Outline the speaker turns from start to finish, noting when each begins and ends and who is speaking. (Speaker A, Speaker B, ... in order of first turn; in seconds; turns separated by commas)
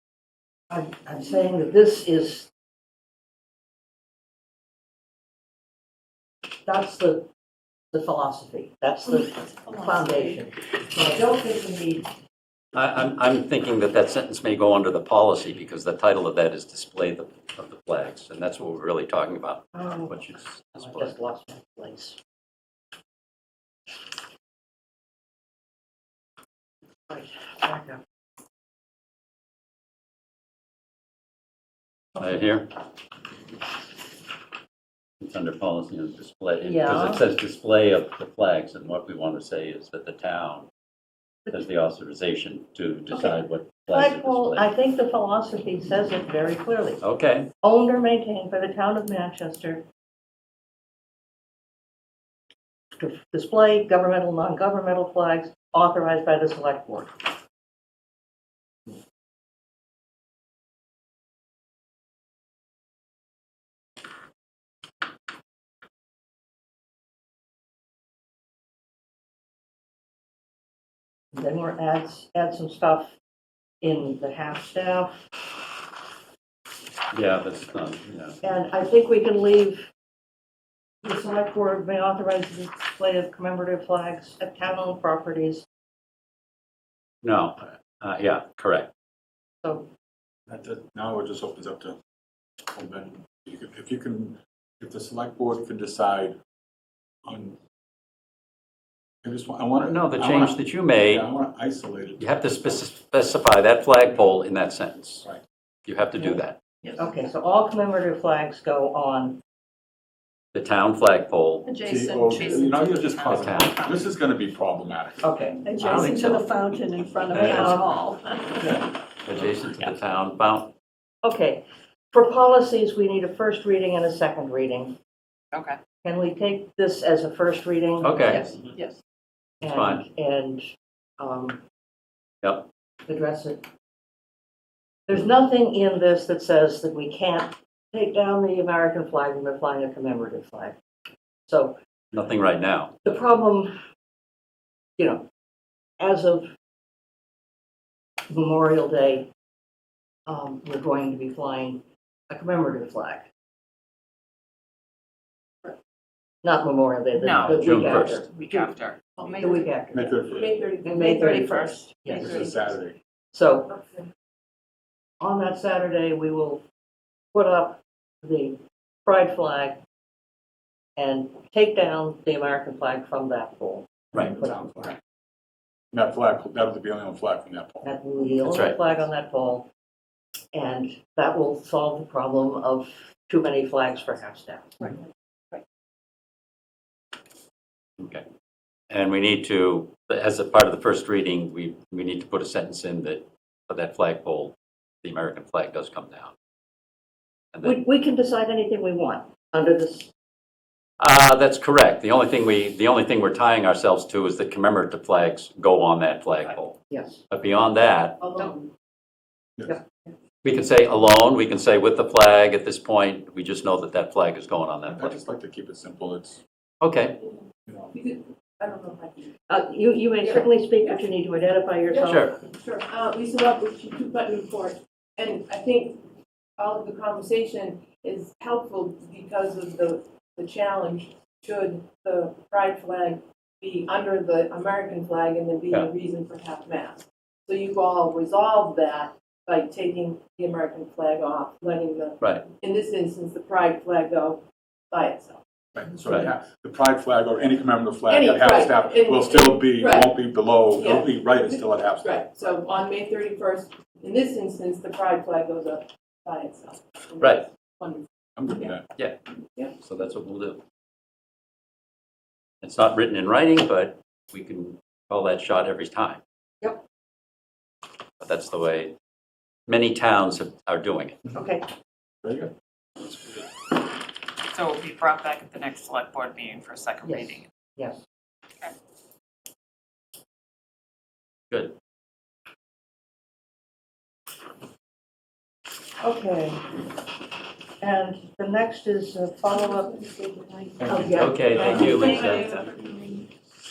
Speaker A: 0.7-2.5, Speaker A: 6.7-7.3, Speaker A: 7.9-12.1, Speaker B: 9.1-10.4, Speaker C: 12.7-21.1, Speaker A: 19.7-20.2, Speaker A: 20.8-22.2, Speaker A: 27.1-28.0, Speaker C: 32.2-32.7, Speaker C: 35.2-40.7, Speaker A: 36.6-37.2, Speaker C: 41.5-44.7, Speaker A: 43.1-43.4, Speaker A: 43.9-47.0, Speaker C: 47.0-47.5, Speaker A: 47.6-49.8, Speaker A: 53.0-57.3, Speaker A: 71.3-73.2, Speaker A: 73.8-75.2, Speaker C: 77.1-78.4, Speaker A: 78.4-79.9, Speaker A: 81.0-85.7, Speaker C: 87.2-88.9, Speaker A: 89.6-89.9, Speaker D: 90.5-92.0, Speaker D: 92.7-96.4, Speaker D: 97.3-97.6, Speaker D: 99.2-102.8, Speaker C: 99.8-101.3, Speaker C: 102.2-105.3, Speaker C: 105.9-106.6, Speaker A: 107.0-109.4, Speaker C: 110.5-111.7, Speaker E: 111.7-114.0, Speaker D: 111.8-115.2, Speaker F: 112.3-113.5, Speaker C: 113.3-113.8, Speaker A: 115.2-115.7, Speaker E: 115.7-118.7, Speaker C: 115.8-116.5, Speaker C: 117.3-117.8, Speaker A: 117.4-117.8, Speaker C: 119.2-120.7, Speaker A: 121.2-125.0, Speaker F: 125.5-125.8, Speaker A: 126.0-128.6, Speaker C: 128.0-128.5, Speaker A: 129.6-131.6, Speaker C: 129.7-130.0, Speaker C: 132.4-132.7, Speaker A: 133.1-133.6, Speaker A: 135.1-140.8, Speaker A: 141.5-141.8, Speaker C: 142.1-142.9, Speaker A: 143.1-143.7, Speaker A: 145.0-145.3, Speaker A: 146.0-146.5, Speaker A: 148.3-149.3, Speaker A: 150.3-153.3, Speaker A: 156.4-158.7, Speaker F: 157.1-159.6, Speaker C: 157.6-158.2, Speaker B: 159.2-159.7, Speaker A: 159.4-160.2, Speaker D: 159.9-160.6, Speaker B: 160.3-161.5, Speaker A: 160.8-162.4, Speaker F: 161.1-162.5, Speaker B: 162.1-162.5, Speaker D: 162.1-163.0, Speaker A: 163.3-163.8, Speaker B: 163.7-164.1, Speaker A: 165.2-166.6, Speaker A: 167.3-169.8, Speaker A: 171.0-174.8, Speaker D: 174.1-175.0, Speaker D: 175.9-177.9, Speaker A: 177.8-179.7, Speaker C: 178.4-178.8, Speaker A: 180.5-184.9, Speaker C: 188.0-188.2, Speaker C: 188.9-196.3, Speaker A: 197.6-200.1, Speaker C: 201.0-208.2, Speaker A: 206.9-207.2, Speaker B: 208.2-208.7, Speaker C: 210.4-215.2, Speaker D: 214.9-216.4, Speaker C: 216.8-217.2, Speaker D: 217.7-217.9, Speaker B: 217.9-219.3, Speaker A: 219.5-222.3, Speaker B: 220.2-221.1, Speaker B: 221.9-226.0, Speaker C: 222.1-222.4, Speaker B: 226.6-245.4, Speaker C: 242.2-242.5, Speaker D: 245.8-252.2, Speaker B: 248.1-258.8, Speaker C: 257.2-257.4, Speaker D: 258.4-258.8, Speaker C: 259.8-260.6, Speaker C: 262.6-266.2, Speaker C: 268.2-268.9, Speaker C: 269.7-271.2, Speaker A: 271.3-271.6, Speaker D: 272.2-272.5, Speaker F: 274.5-277.4, Speaker A: 277.0-278.0, Speaker A: 286.0-286.6, Speaker A: 287.8-289.9, Speaker B: 289.5-292.6, Speaker D: 290.8-291.9, Speaker A: 290.9-292.3, Speaker C: 291.1-292.6, Speaker F: 291.9-292.5